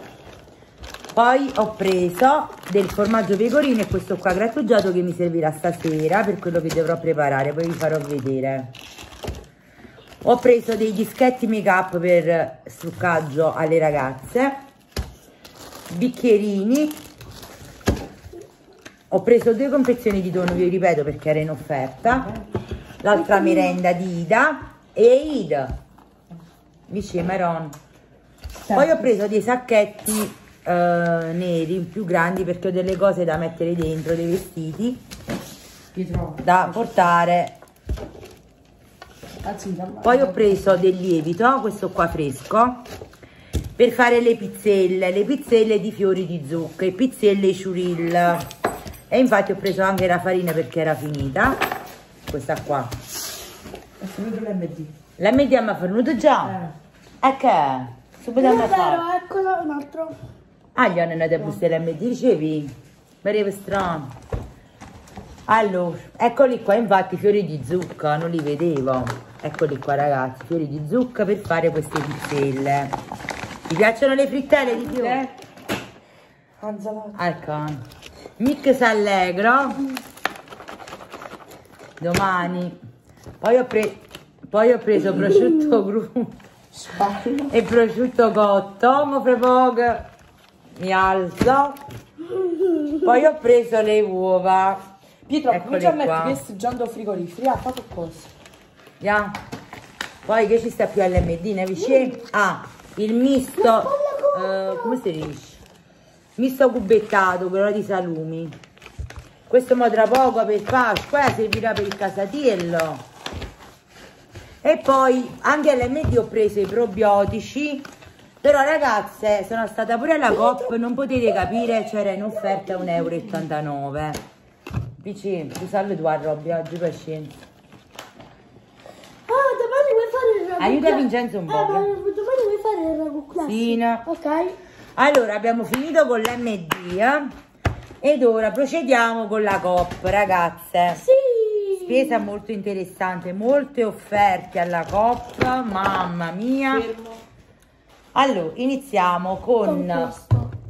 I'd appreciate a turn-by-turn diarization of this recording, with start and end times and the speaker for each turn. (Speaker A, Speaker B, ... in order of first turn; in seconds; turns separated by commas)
Speaker A: 1.1-8.7, Speaker A: 10.2-14.6, Speaker A: 15.9-17.0, Speaker A: 19.1-22.3, Speaker A: 23.0-25.8, Speaker B: 23.1-23.8, Speaker A: 26.9-27.8, Speaker C: 28.7-29.0, Speaker A: 28.7-35.0, Speaker C: 35.9-36.5, Speaker A: 36.4-37.6, Speaker C: 39.4-40.7, Speaker A: 40.0-42.9, Speaker A: 43.8-48.5, Speaker A: 49.1-51.6, Speaker A: 52.3-52.9, Speaker C: 54.0-54.9, Speaker A: 55.2-56.6, Speaker C: 56.5-56.7, Speaker A: 57.2-59.0, Speaker B: 58.4-60.2, Speaker A: 60.8-64.2, Speaker A: 65.5-73.0, Speaker A: 73.7-75.3, Speaker C: 74.6-75.2, Speaker C: 76.6-77.2, Speaker A: 77.2-77.8, Speaker A: 78.4-79.9, Speaker A: 82.0-82.8, Speaker A: 83.4-86.4, Speaker C: 86.7-87.5, Speaker A: 87.5-90.1, Speaker A: 90.8-91.8, Speaker B: 92.3-93.0, Speaker A: 92.9-94.8, Speaker C: 95.3-98.3, Speaker A: 95.5-96.4, Speaker A: 99.0-99.4, Speaker A: 100.2-105.6, Speaker B: 101.8-102.2, Speaker B: 103.6-105.0, Speaker A: 106.4-108.6, Speaker A: 109.5-113.0, Speaker A: 114.6-117.9, Speaker A: 118.4-124.2, Speaker B: 120.4-120.7, Speaker B: 121.3-123.3, Speaker A: 125.0-127.3, Speaker B: 129.3-134.6, Speaker A: 130.6-131.9, Speaker A: 133.4-134.1, Speaker A: 135.0-137.3, Speaker A: 138.0-141.0, Speaker B: 141.0-142.3, Speaker A: 141.8-146.9, Speaker C: 146.7-147.2, Speaker A: 148.1-150.1, Speaker B: 149.6-150.5